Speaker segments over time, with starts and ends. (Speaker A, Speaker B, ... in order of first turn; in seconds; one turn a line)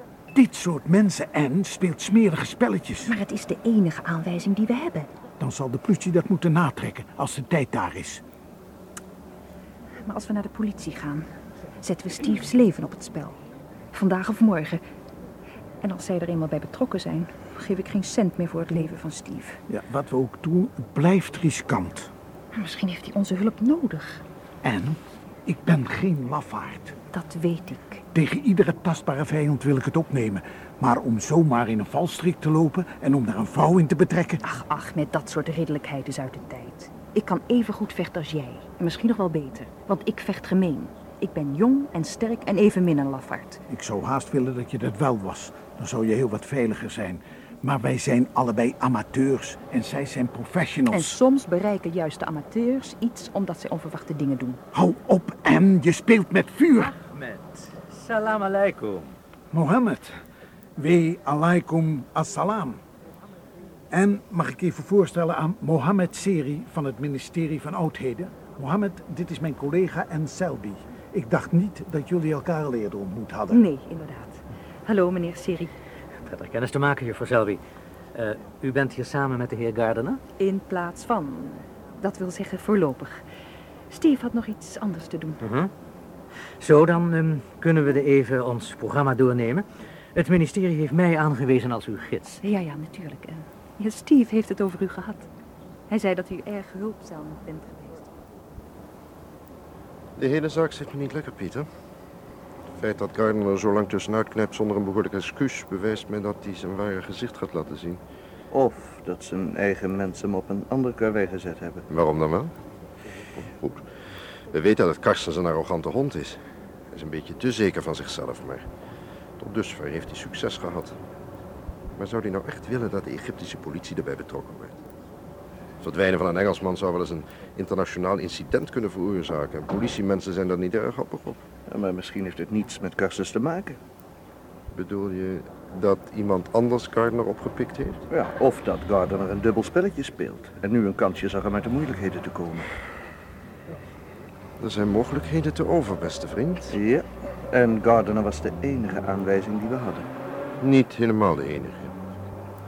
Speaker A: 0.3-3.1
Speaker B: 3.0-5.1
Speaker A: 5.4-8.2
Speaker B: 10.0-11.3
Speaker B: 11.8-13.4
Speaker B: 13.9-14.8
Speaker B: 15.8-19.6
Speaker A: 19.7-22.1
Speaker B: 22.5-24.2
Speaker A: 24.6-26.9
Speaker B: 27.1-28.0
Speaker A: 28.1-34.4
Speaker B: 34.4-43.6
Speaker A: 43.7-51.2
Speaker B: 50.9-54.6
Speaker A: 54.7-56.9
Speaker C: 56.9-59.2
Speaker A: 59.5-60.2
Speaker A: 60.8-62.8
Speaker A: 63.9-73.6
Speaker B: 73.5-75.7
Speaker C: 76.2-77.6
Speaker C: 78.1-80.2
Speaker B: 80.4-83.2
Speaker B: 83.9-85.4
Speaker C: 85.4-85.7
Speaker C: 86.6-92.4
Speaker B: 92.4-95.3
Speaker B: 95.9-98.1
Speaker D: 100.2-101.7
Speaker D: 102.8-108.0
Speaker E: 108.5-111.8
Speaker D: 111.9-112.5
Speaker D: 113.5-113.8
Speaker D: 114.5-116.4
Speaker D: 116.9-118.7
Speaker D: 119.4-121.0
Speaker D: 122.0-124.8
Speaker D: 125.8-131.4
Speaker E: 131.7-133.8
Speaker D: 134.7-138.0
Speaker E: 138.1-142.7
Speaker D: 144.6-146.8
Speaker E: 146.7-150.1
Speaker D: 150.6-151.9